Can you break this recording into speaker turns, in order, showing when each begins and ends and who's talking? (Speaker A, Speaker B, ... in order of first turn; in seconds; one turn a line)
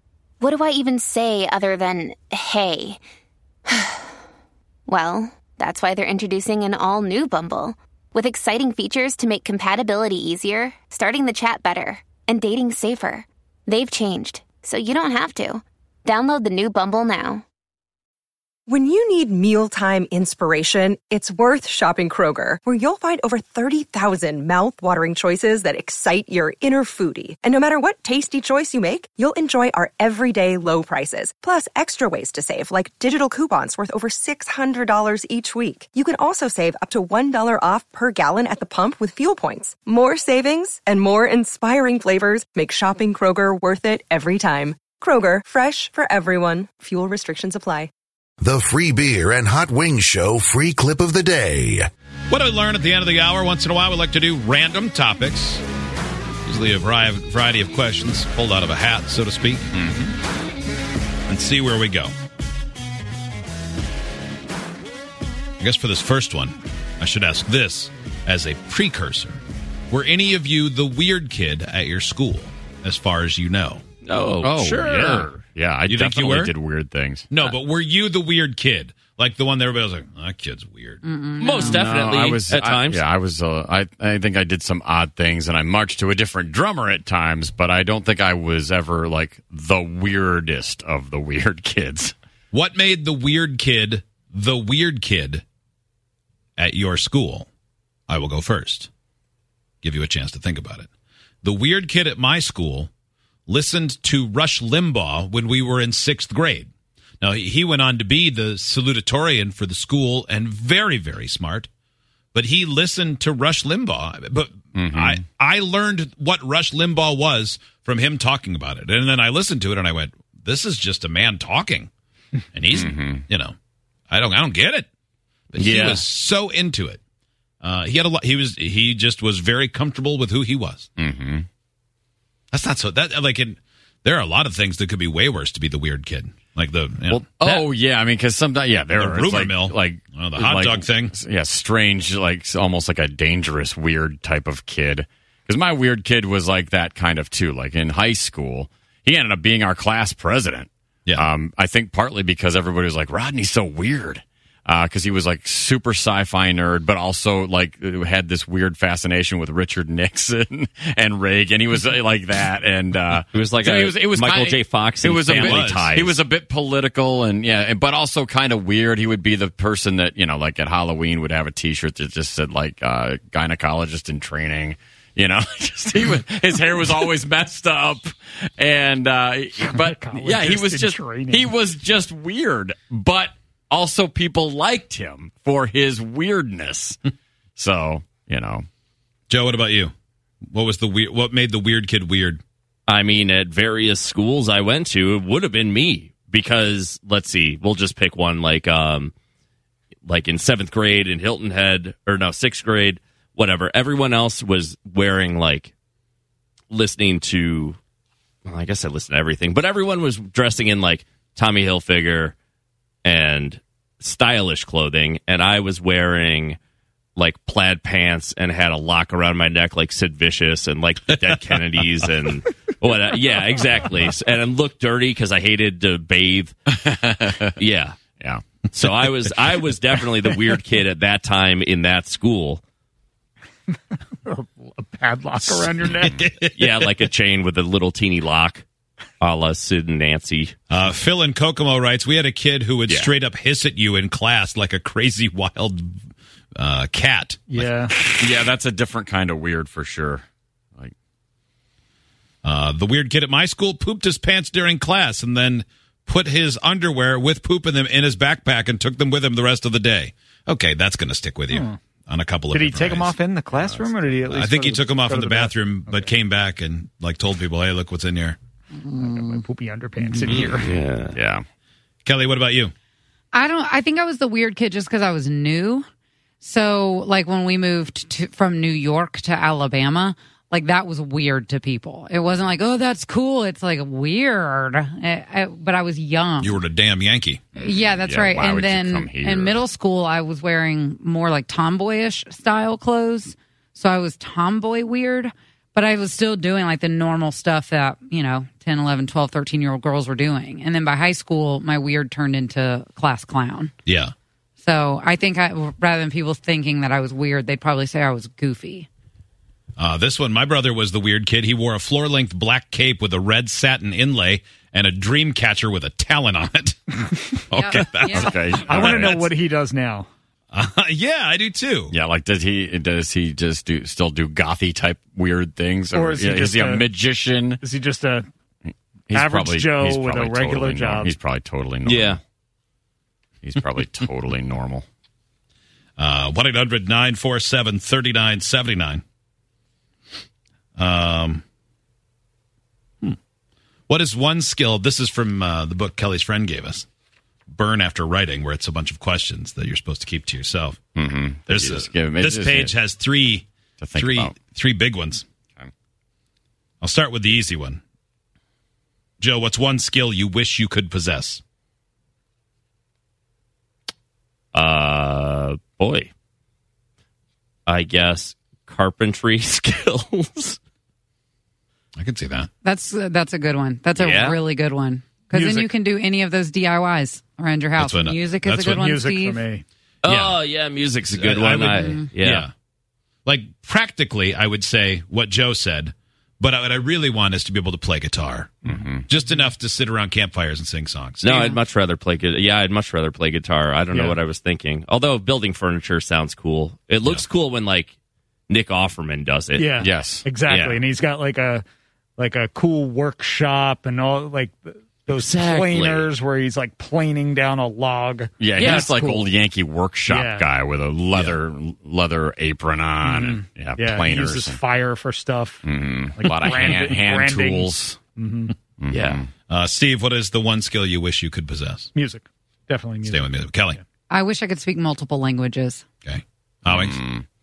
Speaker A: 0.4-3.0
Speaker A: 3.7-4.1
Speaker A: 4.9-17.4
Speaker B: 18.7-47.9
Speaker C: 48.4-51.9
Speaker D: 52.3-55.6
Speaker D: 56.5-59.6
Speaker E: 59.8-60.1
Speaker D: 61.3-62.1
Speaker D: 65.6-69.4
Speaker D: 69.9-73.8
Speaker F: 74.0-75.4
Speaker E: 74.4-77.3
Speaker D: 75.9-76.5
Speaker D: 77.3-81.0
Speaker G: 81.0-81.8
Speaker F: 81.4-83.0
Speaker E: 81.6-92.2
Speaker D: 92.5-95.4
Speaker D: 96.6-97.5
Speaker D: 98.1-98.9
Speaker D: 99.8-100.9
Speaker D: 101.4-102.9
Speaker D: 103.5-106.7
Speaker D: 107.2-111.7
Speaker D: 112.3-121.9
Speaker E: 114.8-115.2
Speaker D: 122.5-123.5
Speaker E: 122.7-123.2
Speaker D: 124.1-124.9
Speaker D: 125.5-127.0
Speaker F: 125.6-126.0
Speaker D: 127.6-130.9
Speaker E: 131.0-131.5
Speaker D: 132.5-137.6
Speaker E: 137.1-187.0
Speaker D: 139.0-141.1
Speaker F: 163.3-166.2
Speaker D: 165.3-165.9
Speaker H: 179.6-181.5
Speaker E: 187.6-188.7
Speaker D: 189.3-189.9
Speaker D: 190.5-192.4
Speaker F: 192.9-199.1
Speaker F: 200.1-205.7
Speaker F: 206.7-207.8
Speaker F: 208.5-212.4
Speaker F: 213.1-216.6
Speaker F: 217.2-226.6
Speaker E: 226.8-227.6
Speaker F: 227.6-228.0
Speaker F: 228.7-232.6
Speaker H: 234.2-236.1
Speaker D: 235.5-236.8
Speaker F: 236.6-238.7
Speaker F: 239.2-240.6
Speaker D: 240.7-245.9
Speaker D: 246.6-247.9
Speaker H: 247.5-247.9
Speaker E: 248.2-250.2
Speaker D: 252.4-263.2
Speaker H: 261.5-261.8
Speaker H: 262.5-266.1
Speaker E: 263.5-264.1
Speaker D: 264.3-268.4
Speaker G: 268.8-269.4
Speaker H: 268.9-270.6
Speaker F: 270.2-271.2
Speaker E: 270.6-271.4
Speaker D: 272.1-272.7
Speaker G: 273.3-275.9
Speaker G: 276.4-286.6
Speaker D: 286.4-287.4
Speaker E: 287.6-289.6
Speaker G: 287.6-303.7
Speaker D: 303.9-304.1
Speaker G: 304.6-308.9
Speaker D: 309.8-319.3
Speaker G: 317.5-318.4
Speaker E: 318.1-319.2
Speaker H: 318.7-320.1
Speaker D: 320.5-321.9
Speaker E: 321.9-327.6
Speaker H: 325.9-326.9
Speaker H: 327.6-328.3
Speaker E: 329.1-332.2
Speaker H: 329.1-331.1
Speaker F: 331.9-332.2
Speaker E: 333.4-334.9
Speaker D: 336.0-339.0
Speaker D: 340.8-341.4
Speaker D: 343.9-346.9
Speaker D: 347.5-350.8
Speaker E: 350.9-352.8
Speaker D: 351.5-355.2
Speaker E: 353.8-354.4
Speaker D: 356.8-357.8
Speaker D: 359.2-361.4
Speaker F: 364.5-366.1
Speaker F: 367.7-370.6
Speaker D: 372.0-372.5
Speaker G: 372.6-379.4
Speaker F: 374.0-374.4
Speaker H: 375.3-375.7
Speaker D: 377.8-378.9
Speaker H: 378.8-379.6
Speaker F: 380.0-382.5
Speaker D: 380.1-380.4
Speaker D: 381.1-382.5
Speaker G: 381.7-382.1
Speaker D: 383.3-391.5
Speaker E: 388.7-389.1
Speaker F: 391.2-397.9
Speaker G: 391.3-391.6
Speaker H: 393.9-394.2
Speaker F: 398.5-399.7
Speaker H: 399.6-401.6
Speaker E: 399.8-400.3
Speaker F: 400.5-400.8
Speaker H: 402.2-409.3
Speaker F: 405.1-406.1
Speaker E: 408.4-414.6
Speaker F: 408.6-409.0
Speaker H: 410.1-410.4
Speaker H: 413.0-415.6
Speaker E: 415.6-418.0
Speaker H: 416.2-418.5
Speaker E: 418.8-419.3
Speaker F: 418.9-419.2
Speaker D: 419.5-421.9
Speaker H: 421.9-423.2
Speaker D: 423.1-423.8
Speaker G: 424.1-425.8
Speaker D: 426.1-427.0
Speaker E: 426.7-427.3